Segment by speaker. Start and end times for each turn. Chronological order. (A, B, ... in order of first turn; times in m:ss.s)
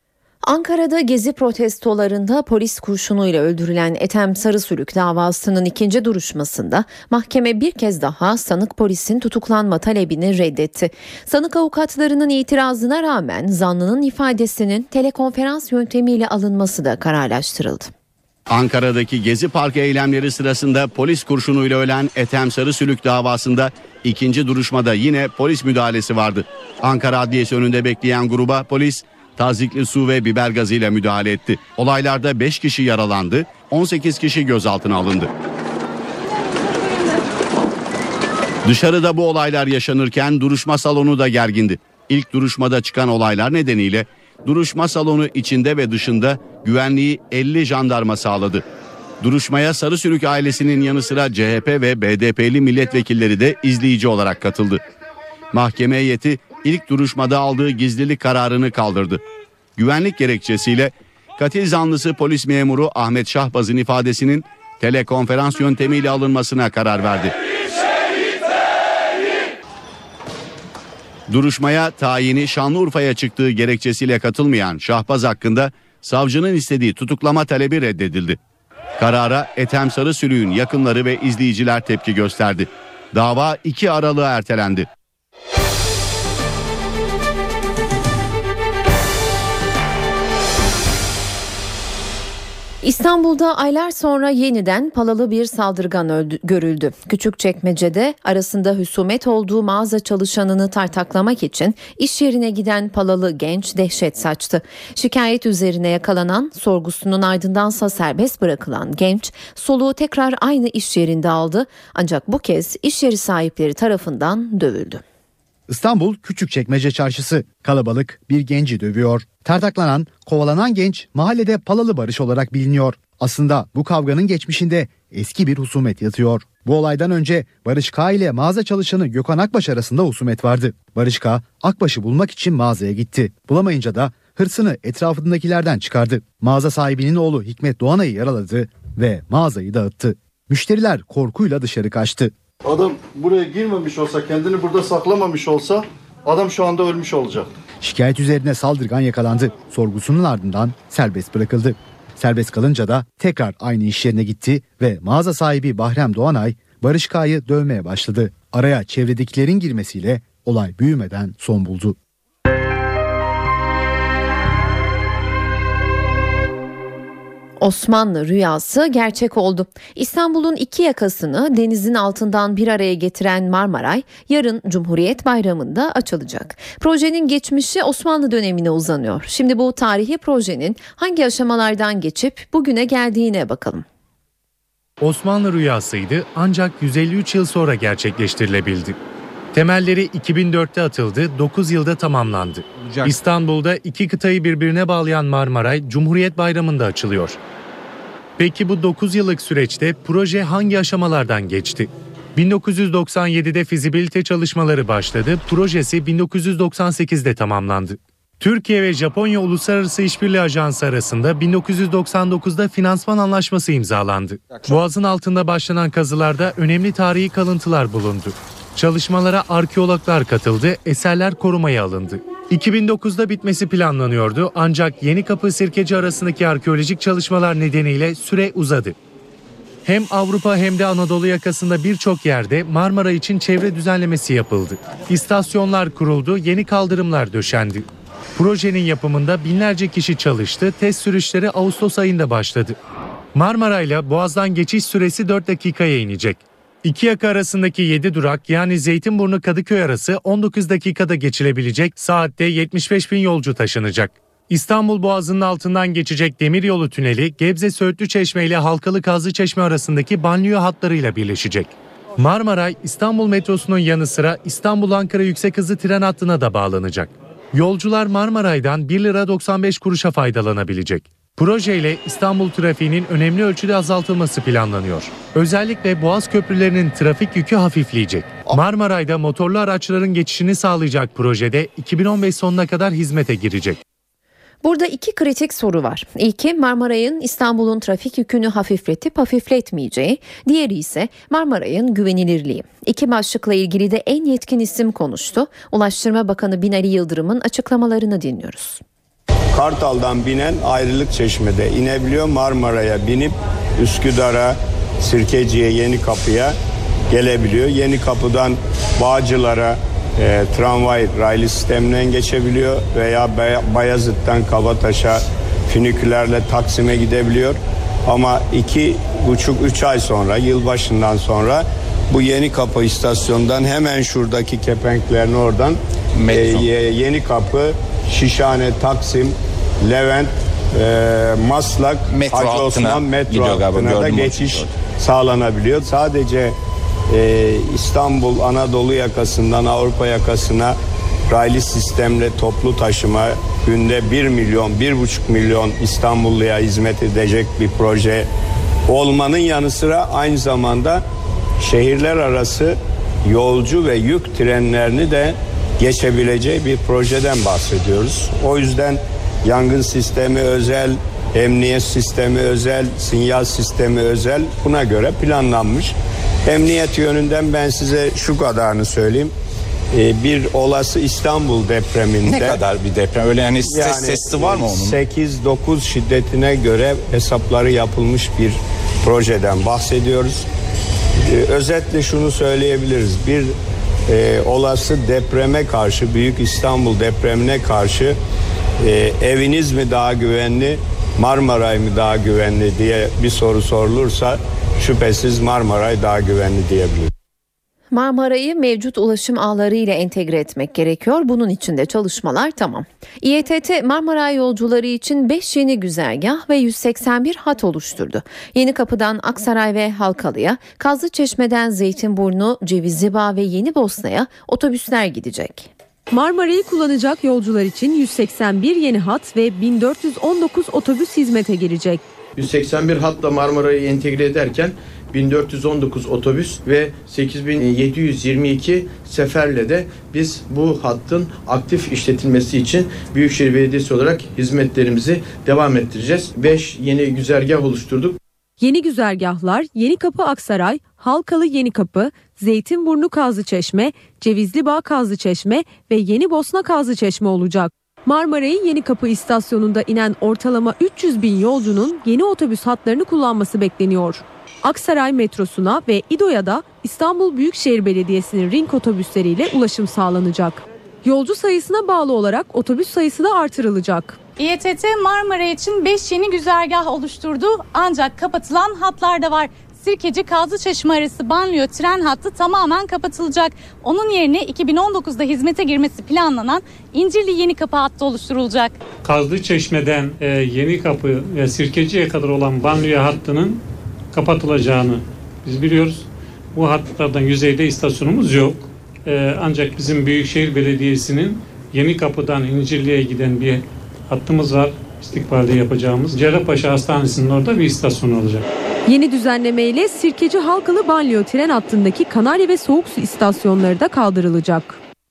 0:00.4-0:17.9 A
0:18.5-0:35.3 B
0:38.6-0:48.6 B
0:49.2-0:54.8 B
0:55.5-0:59.2 B
0:59.8-1:07.3 B
1:11.3-1:18.4 B
1:19.0-1:24.8 B
1:32.8-1:55.0 A
1:55.7-2:22.3 C
2:22.6-2:27.5 D
2:27.8-2:42.0 C
2:47.6-3:03.8 A
3:05.0-3:09.0 E
3:09.5-3:17.4 E
3:18.4-3:49.0 E
3:49.8-4:02.8 E
4:03.3-4:43.8 E
4:44.6-4:58.8 A
4:59.5-5:06.5 F
5:07.1-5:36.5 F
5:26.2-5:26.7 G
5:32.1-5:34.7 G
5:37.1-5:40.7 F
5:41.3-5:48.3 F
5:48.9-5:51.0 F
5:51.6-6:05.9 F
6:06.4-6:09.3 F
6:09.9-6:12.6 F
6:12.2-6:15.0 G
6:13.6-6:20.4 F
6:21.3-6:23.5 F
6:24.1-6:28.2 F
6:28.8-6:37.1 F
6:37.9-6:55.7 A
6:56.1-7:02.0 H
7:02.4-7:18.2 I
7:18.6-7:44.2 H
7:44.4-7:58.8 J
7:59.0-8:03.6 K
8:04.1-8:18.4 K
8:18.9-8:24.8 H